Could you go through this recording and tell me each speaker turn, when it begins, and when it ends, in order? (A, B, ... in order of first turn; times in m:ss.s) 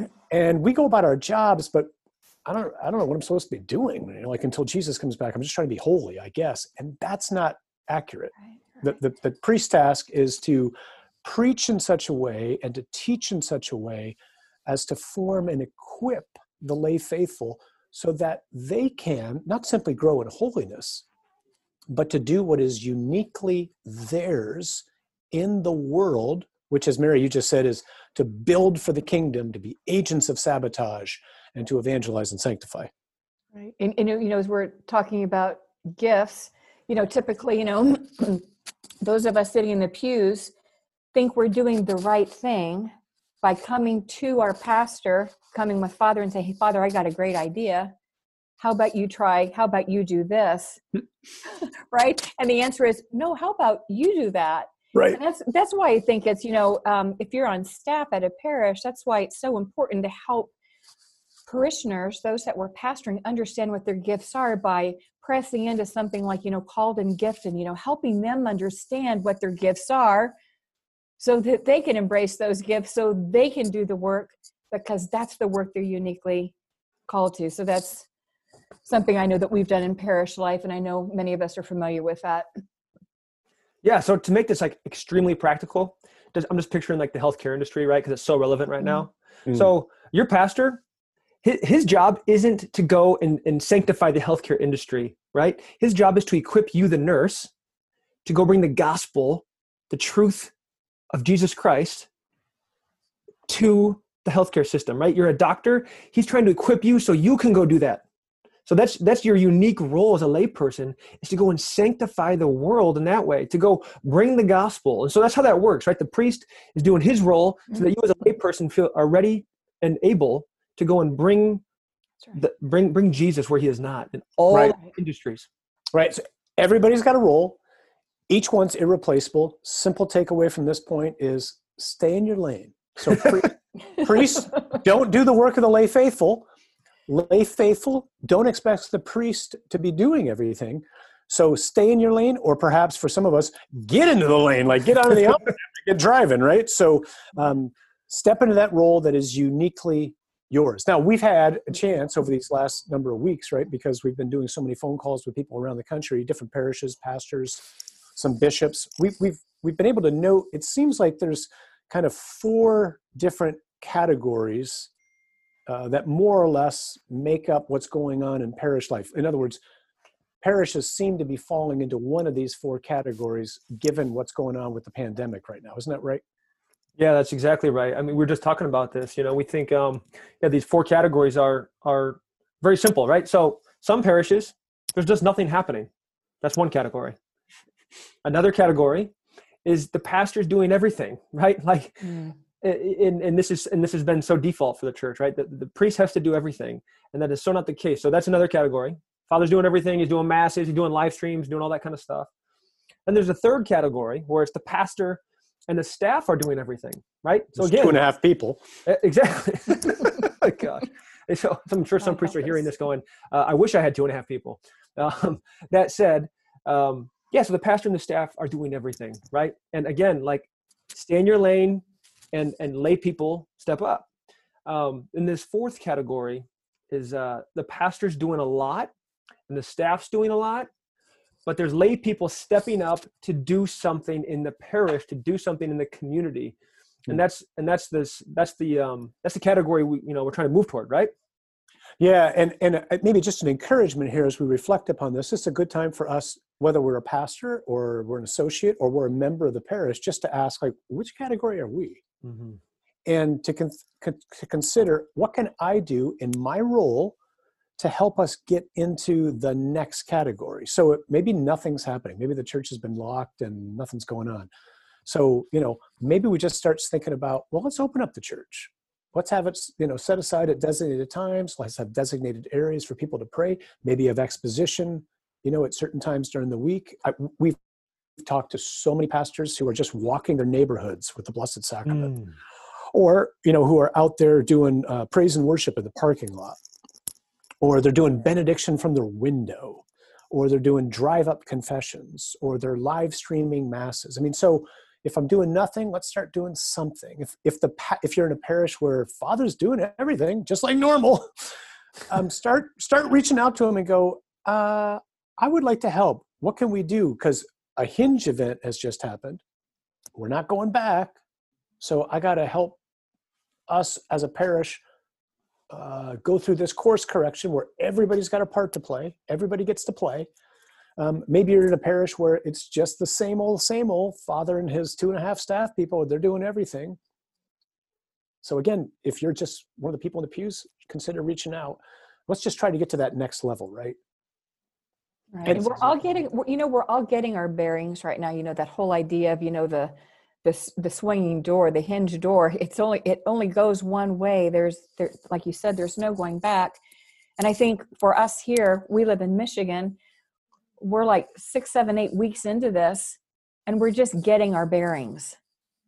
0:00.3-0:01.9 A
0:02.5-0:21.0 A
0:21.9-0:32.9 A
0:33.5-0:38.5 B
0:39.0-0:40.5 B
0:41.1-0:47.9 B
0:48.6-0:50.8 B
0:51.5-1:00.5 B
0:54.9-0:55.2 A
1:01.5-1:10.3 B
1:11.2-1:16.5 B
1:17.1-1:18.1 B
1:18.8-1:22.5 B
1:23.8-1:30.8 C
1:31.4-1:37.5 C
1:38.3-1:40.5 C
1:41.1-1:42.1 C
1:43.5-1:48.0 C
1:48.7-2:01.6 C
2:02.3-2:05.5 C
2:04.5-2:04.8 A
2:05.9-2:07.6 A
2:08.3-2:16.5 A
2:17.1-2:44.9 A
2:45.7-2:49.6 A
2:50.4-2:56.2 A
2:57.0-3:05.9 C
3:06.4-3:07.2 C
3:08.2-3:09.1 C
3:09.6-3:22.3 C
3:12.0-3:12.3 B
3:23.1-3:28.0 C
3:27.6-3:28.6 A
3:28.9-3:44.1 C
3:44.7-3:48.9 C
3:49.5-3:50.7 C
3:51.5-3:56.6 C
3:57.1-4:01.1 C
4:02.0-4:12.0 A
4:12.2-4:12.6 C
4:13.1-4:17.2 A
4:17.8-4:24.5 A
4:25.1-4:37.6 A
4:38.2-4:42.2 A
4:41.9-4:42.3 C
4:42.9-4:46.6 A
4:47.6-5:01.3 A
5:02.1-5:09.4 A
5:10.2-5:11.2 A
5:11.8-5:12.8 A
5:13.7-5:14.8 A
5:15.7-5:20.3 A
5:21.0-5:27.0 A
5:28.4-5:34.0 A
5:35.3-5:46.8 B
5:35.4-5:36.0 A
5:47.4-5:50.0 B
5:50.8-5:55.4 B